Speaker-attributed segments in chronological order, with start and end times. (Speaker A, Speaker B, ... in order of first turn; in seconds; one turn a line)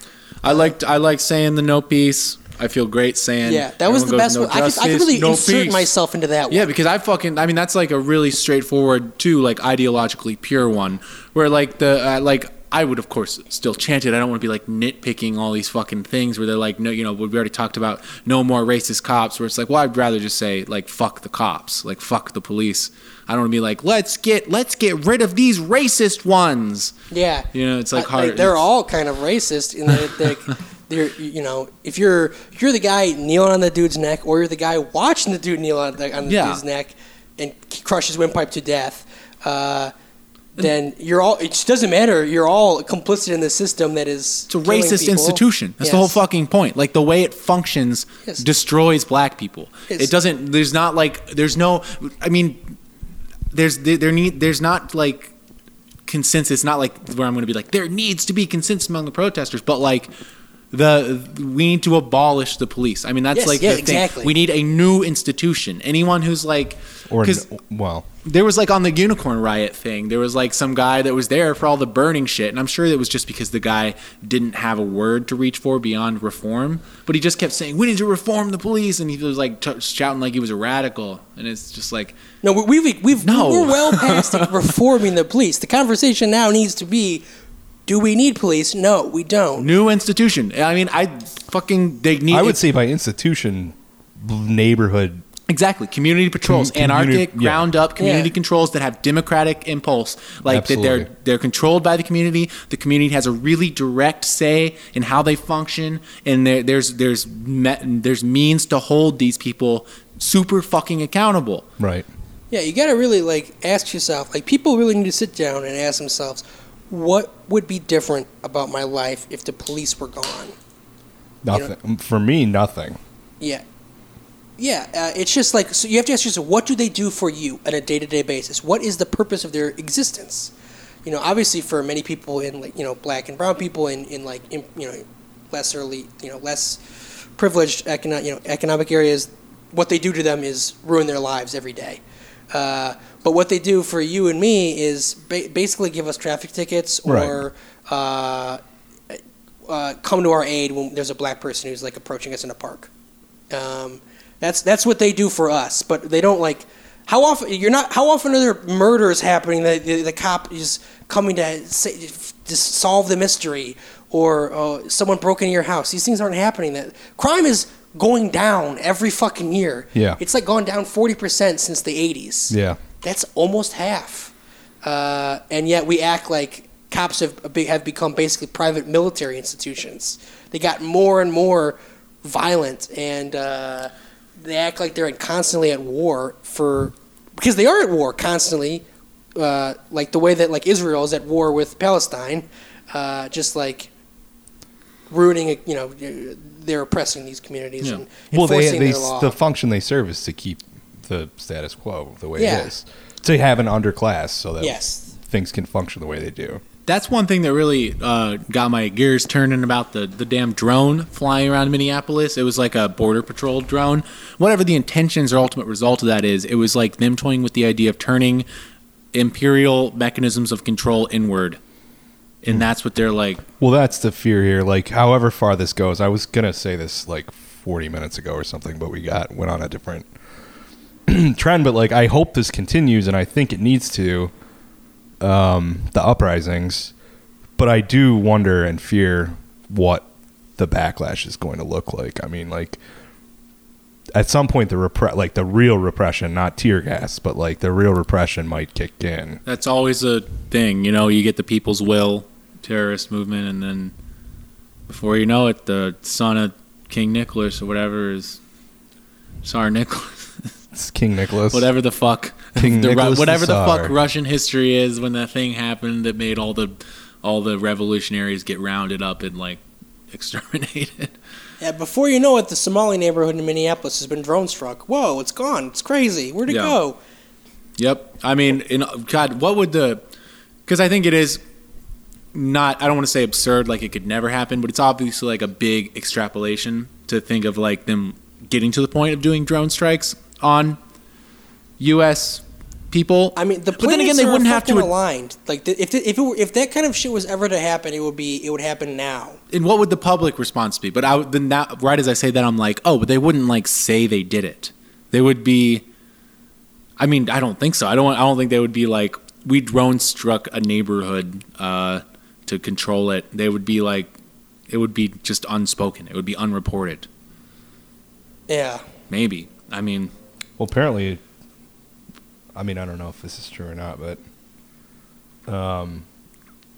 Speaker A: 0.4-5.9
Speaker B: 3.4-6.7
Speaker A: 6.5-26.9
Speaker B: 27.1-39.9
Speaker A: 27.5-28.6
Speaker A: 36.2-36.6
Speaker B: 40.5-46.2
Speaker A: 44.5-52.6
Speaker A: 53.5-55.3
Speaker A: 56.1-60.1
Speaker A: 60.7-67.5
Speaker B: 63.3-64.3
Speaker C: 67.1-68.1
Speaker A: 68.2-82.2
Speaker B: 82.4-87.2
Speaker A: 83.2-84.7
Speaker B: 87.9-89.7
Speaker A: 89.6-92.6
Speaker C: 92.3-95.2
Speaker A: 95.5-111.7
Speaker C: 96.4-97.6
Speaker B: 98.0-98.3
Speaker C: 100.5-101.1
Speaker C: 111.8-112.1
Speaker B: 112.5-120.5
Speaker C: 121.4-123.0
Speaker B: 124.6-130.5
Speaker B: 131.0-136.8
Speaker B: 137.3-142.0
Speaker B: 142.5-152.9
Speaker C: 147.0-147.4
Speaker B: 153.5-174.3
Speaker C: 169.9-170.2
Speaker C: 172.5-172.8
Speaker B: 174.8-188.8
Speaker B: 189.3-193.9
Speaker B: 195.1-199.3
Speaker C: 198.3-206.6
Speaker B: 202.4-202.7
Speaker B: 204.6-205.1
Speaker A: 206.9-218.4
Speaker A: 219.1-221.6
Speaker A: 222.4-223.4
Speaker C: 223.6-230.1
Speaker C: 231.1-234.3
Speaker C: 235.2-236.9
Speaker C: 237.6-242.8
Speaker C: 244.1-249.4
Speaker A: 249.4-253.9
Speaker A: 254.9-258.4
Speaker A: 259.4-260.5
Speaker C: 260.7-261.7
Speaker A: 261.5-271.1
Speaker C: 262.6-263.9
Speaker B: 271.6-277.0
Speaker A: 276.5-276.8
Speaker A: 277.8-280.0
Speaker A: 280.6-281.4
Speaker A: 282.3-290.8
Speaker A: 291.8-294.9
Speaker B: 293.4-299.4
Speaker A: 299.5-305.8
Speaker A: 307.0-314.1
Speaker A: 314.7-317.1
Speaker B: 318.5-318.8
Speaker A: 319.1-320.1
Speaker C: 320.6-321.2
Speaker C: 322.5-324.2
Speaker C: 325.5-326.0